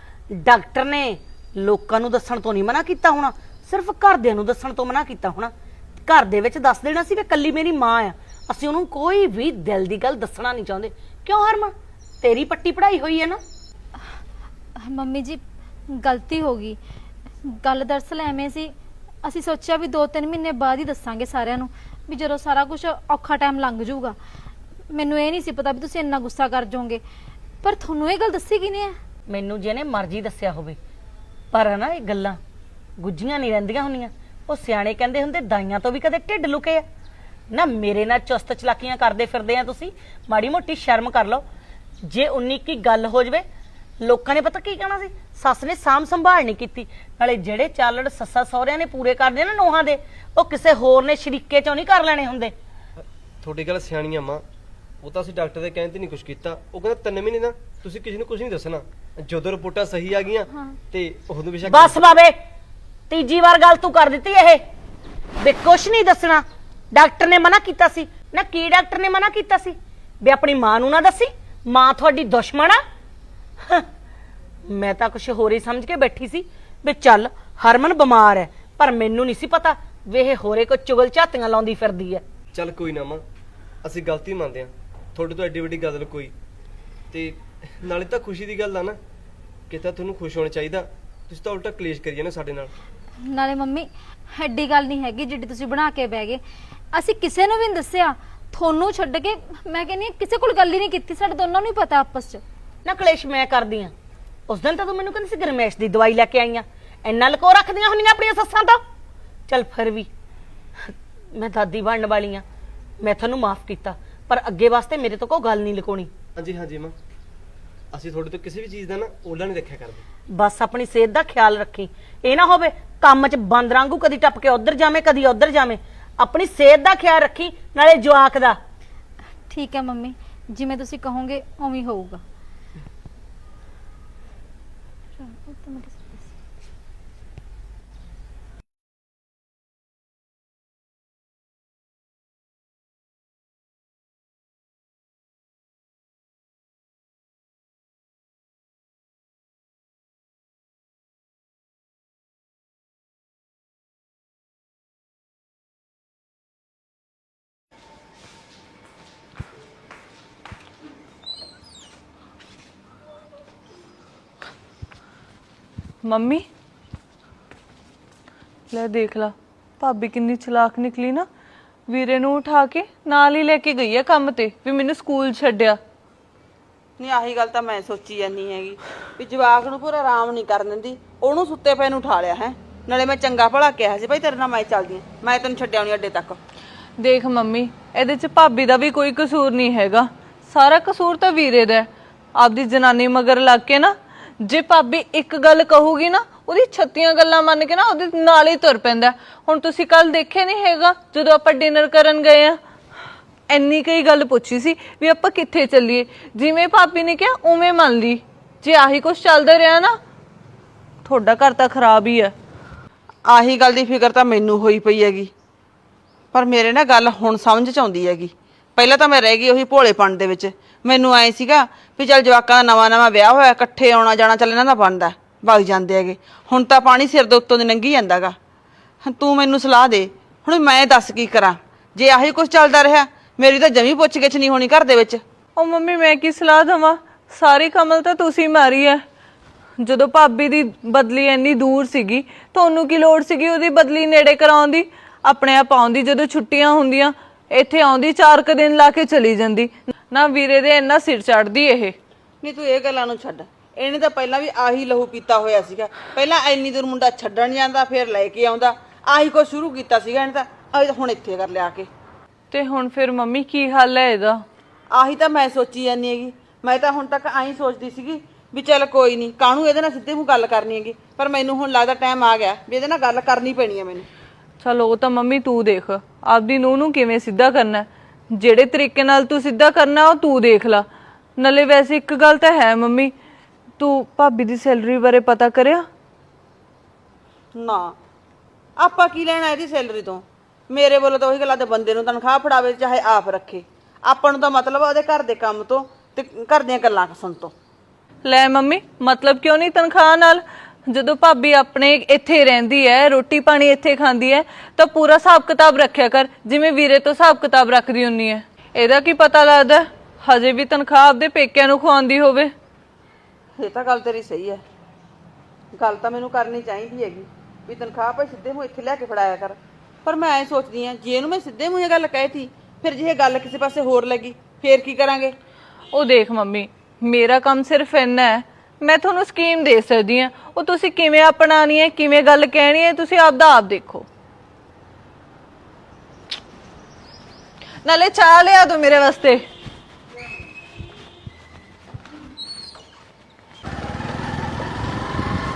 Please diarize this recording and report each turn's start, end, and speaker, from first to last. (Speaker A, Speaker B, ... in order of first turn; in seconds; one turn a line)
Speaker A: 0.3-5.5
Speaker A: 6.1-13.4
Speaker B: 14.9-15.4
Speaker B: 16.0-16.8
Speaker B: 17.6-18.7
Speaker B: 19.2-24.1
Speaker B: 24.9-27.0
Speaker B: 27.6-28.9
Speaker A: 29.3-30.8
Speaker A: 31.5-32.4
Speaker A: 33.0-36.9
Speaker A: 37.5-41.4
Speaker A: 42.1-43.4
Speaker A: 44.0-52.5
Speaker C: 53.4-54.4
Speaker C: 55.0-62.0
Speaker A: 61.7-62.4
Speaker A: 63.1-64.6
Speaker A: 65.4-72.8
Speaker A: 74.7-82.2
Speaker C: 82.5-83.2
Speaker C: 83.8-86.3
Speaker C: 87.1-89.0
Speaker C: 89.7-92.7
Speaker B: 93.3-96.4
Speaker B: 96.9-102.4
Speaker A: 102.8-103.9
Speaker A: 104.5-108.8
Speaker A: 109.5-110.1
Speaker A: 111.3-112.4
Speaker A: 113.0-116.1
Speaker C: 116.4-116.9
Speaker C: 117.9-120.0
Speaker A: 120.3-128.6
Speaker B: 129.5-132.2
Speaker B: 135.2-136.3
Speaker D: 166.1-166.4
Speaker D: 168.7-171.3
Speaker D: 171.9-175.8
Speaker E: 177.0-186.4
Speaker D: 187.0-202.6
Speaker D: 203.5-209.9
Speaker D: 211.1-212.3
Speaker E: 213.3-215.3
Speaker E: 216.3-228.4
Speaker E: 229.0-235.2
Speaker D: 235.6-239.0
Speaker D: 239.8-251.9
Speaker E: 252.4-261.9
Speaker D: 262.5-264.4
Speaker E: 264.9-274.1
Speaker D: 274.6-280.8
Speaker D: 281.4-283.1
Speaker D: 283.8-285.9
Speaker E: 287.5-288.0
Speaker E: 288.8-297.5
Speaker D: 298.2-312.5
Speaker E: 313.6-314.6
Speaker E: 315.8-325.4
Speaker D: 325.9-334.1
Speaker D: 337.9-339.4